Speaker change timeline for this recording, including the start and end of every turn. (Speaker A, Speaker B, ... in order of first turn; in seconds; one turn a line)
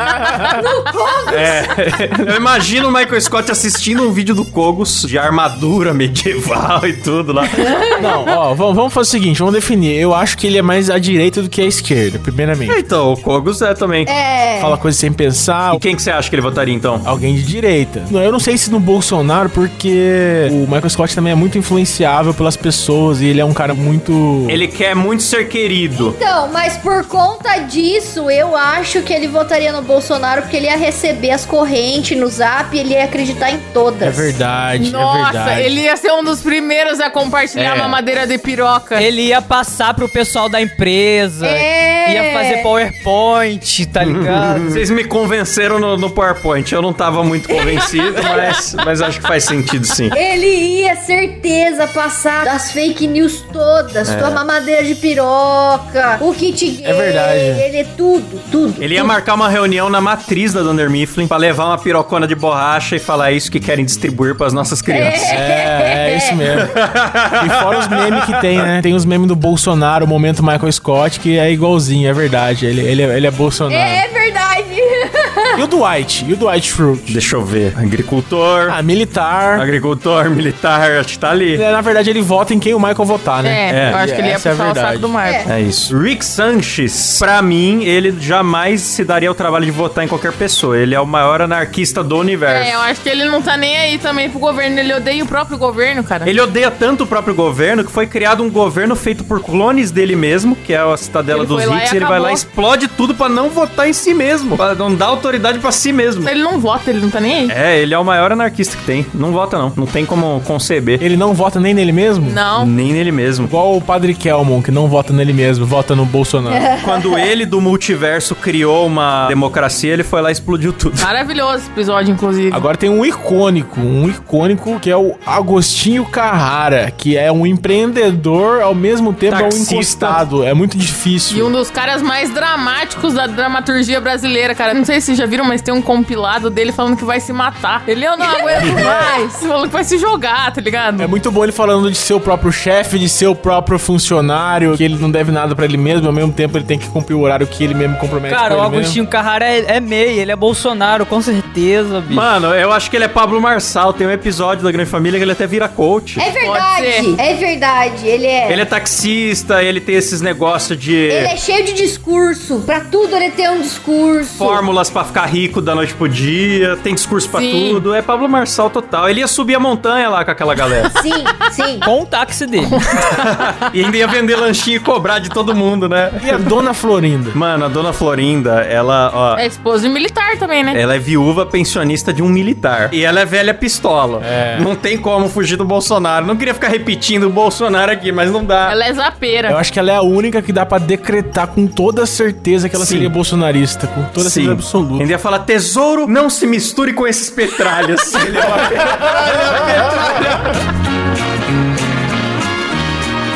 Speaker A: 0.5-1.7
Speaker B: 1.3-7.9
Speaker A: 7.6-8.1
Speaker C: 8.0-12.8
Speaker B: 12.7-14.1
Speaker A: 14.1-14.8
Speaker C: 14.6-15.8
Speaker B: 15.7-17.1
Speaker C: 17.1-24.6
Speaker B: 24.5-26.2
Speaker A: 25.9-34.4
Speaker C: 34.0-35.8
Speaker D: 34.8-39.1
Speaker E: 39.0-44.8
Speaker A: 41.4-42.7
Speaker B: 44.0-50.2
Speaker A: 47.6-48.6
Speaker A: 50.1-59.1
Speaker B: 54.1-54.4
Speaker C: 56.8-57.6
Speaker B: 58.8-65.3
Speaker A: 64.9-66.4
Speaker C: 65.2-66.7
Speaker B: 66.6-68.5
Speaker C: 67.4-74.0
Speaker A: 73.7-75.6
Speaker C: 75.5-77.2
Speaker B: 77.1-78.8
Speaker C: 78.7-79.7
Speaker B: 79.5-81.7
Speaker C: 81.5-85.1
Speaker D: 83.4-85.4
Speaker B: 83.7-84.0
Speaker A: 85.2-85.6
Speaker B: 85.5-92.8
Speaker D: 92.5-96.3
Speaker B: 96.2-106.3
Speaker D: 101.3-102.4
Speaker D: 106.2-107.5
Speaker B: 107.5-111.0
Speaker C: 111.0-112.4
Speaker D: 112.2-112.7
Speaker B: 112.6-113.5
Speaker C: 113.4-116.7
Speaker A: 116.5-117.3
Speaker B: 116.8-121.1
Speaker D: 121.0-122.6
Speaker C: 122.5-131.5
Speaker B: 129.3-130.2
Speaker D: 131.3-141.1
Speaker B: 138.6-138.8
Speaker C: 141.0-149.0
Speaker E: 148.3-152.3
Speaker B: 152.1-156.2
Speaker A: 156.2-158.7
Speaker D: 156.4-157.1
Speaker B: 158.5-161.3
Speaker A: 161.1-164.6
Speaker B: 164.4-170.9
Speaker D: 167.3-167.8
Speaker A: 170.9-171.9
Speaker E: 171.8-172.8
Speaker B: 173.0-176.4
Speaker C: 176.2-177.4
Speaker B: 177.3-179.4
Speaker D: 179.3-180.8
Speaker B: 180.7-188.8
Speaker C: 184.2-184.7
Speaker D: 188.7-189.6
Speaker C: 189.5-195.1
Speaker B: 192.8-193.1
Speaker B: 194.2-200.4